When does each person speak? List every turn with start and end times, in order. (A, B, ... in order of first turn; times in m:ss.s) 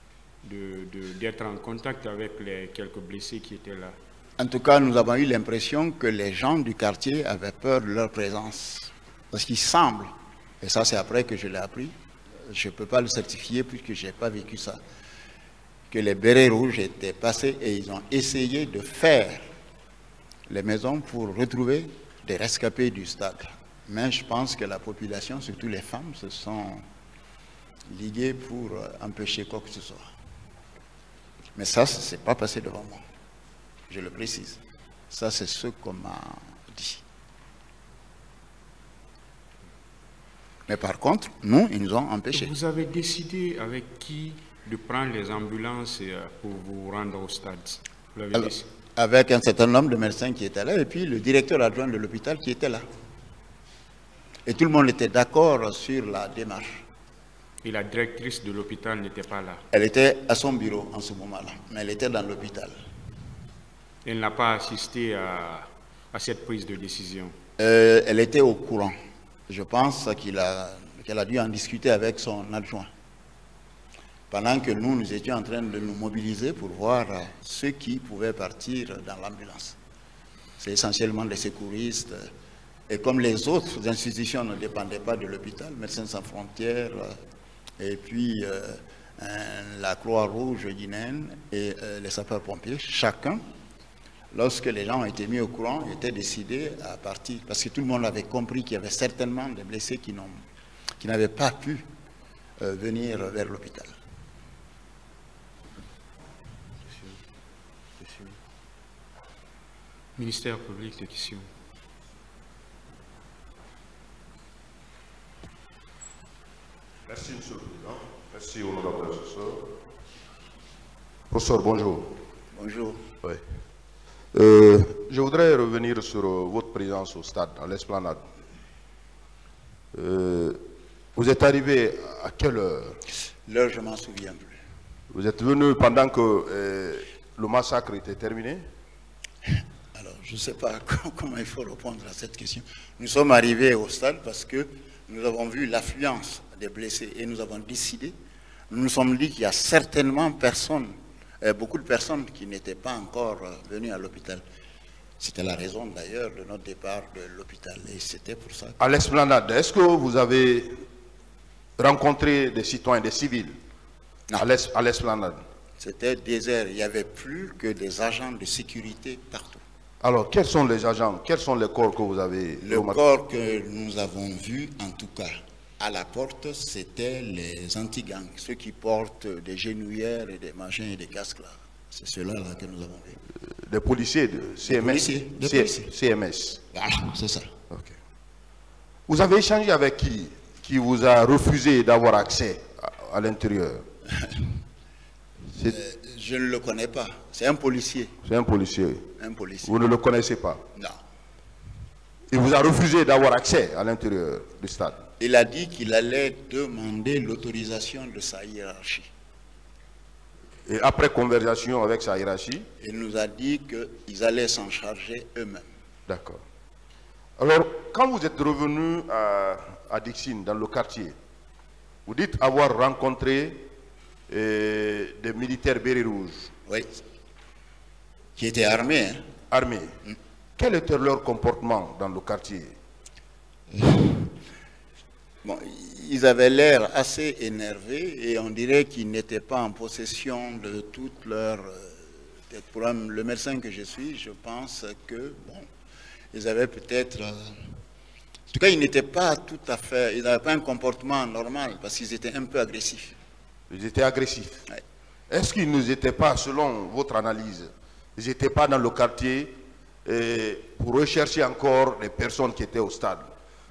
0:00.4-0:04.0 A
0:04.4-0:14.8 B
0:15.9-0:19.5 B
0:20.5-0:26.8 B
0:27.9-0:30.1 B
0:31.6-0:33.0 B
0:33.9-0:37.0 B
0:40.7-0:42.6 B
0:42.3-0:48.7 A
0:48.3-0:52.8 B
0:54.4-0:56.8 B
0:57.6-0:59.6 A
0:59.7-1:02.8 B
1:04.0-1:07.4 A
1:07.6-1:09.0 B
1:09.5-1:12.9 B
1:14.3-1:19.8 B
1:20.6-1:22.3 B
1:22.9-1:27.2 B
1:27.8-1:33.4 B
1:34.3-1:40.5 B
1:41.0-1:41.9 B
1:42.6-1:44.0 B
1:50.2-1:51.5 A
1:57.1-1:59.6 C
2:01.3-2:02.2 C
2:02.5-2:03.1 B
2:04.3-2:08.2 C
2:09.9-2:10.6 C
2:11.2-2:13.0 C
2:13.4-2:14.6 B
2:15.1-2:18.6 C
2:19.5-2:28.1 B
2:28.7-2:34.4 B
2:35.2-2:38.8 B
2:38.8-2:40.8 C
2:41.8-2:43.6 C
2:44.4-2:45.4 C
2:45.8-2:49.6 B
2:50.0-2:53.0 C
2:52.6-3:03.2 B
3:03.5-3:06.6 C
3:04.6-3:05.9 B
3:06.7-3:07.5 B
3:07.7-3:08.0 C
3:09.1-3:13.9 C
3:14.1-3:14.5 B
3:15.5-3:15.8 C
3:15.6-3:18.1 B
3:18.2-3:19.1 C
3:19.2-3:19.8 B
3:19.6-3:20.6 C
3:20.7-3:21.0 B
3:22.3-3:25.0 C
3:25.2-3:29.1 B
3:30.6-3:32.7 C
3:32.8-3:35.7 B
3:36.1-3:36.4 C
3:37.4-3:41.1 C
3:42.1-3:43.7 C
3:44.3-3:46.5 C
3:46.7-3:46.9 B
3:48.4-3:49.3 B
3:49.5-3:50.0 C
3:50.6-3:52.8 C
3:53.7-3:54.4 B
3:55.4-4:05.7 B
4:06.3-4:07.8 B
4:08.5-4:13.2 B
4:13.7-4:14.6 C
4:15.3-4:23.3 C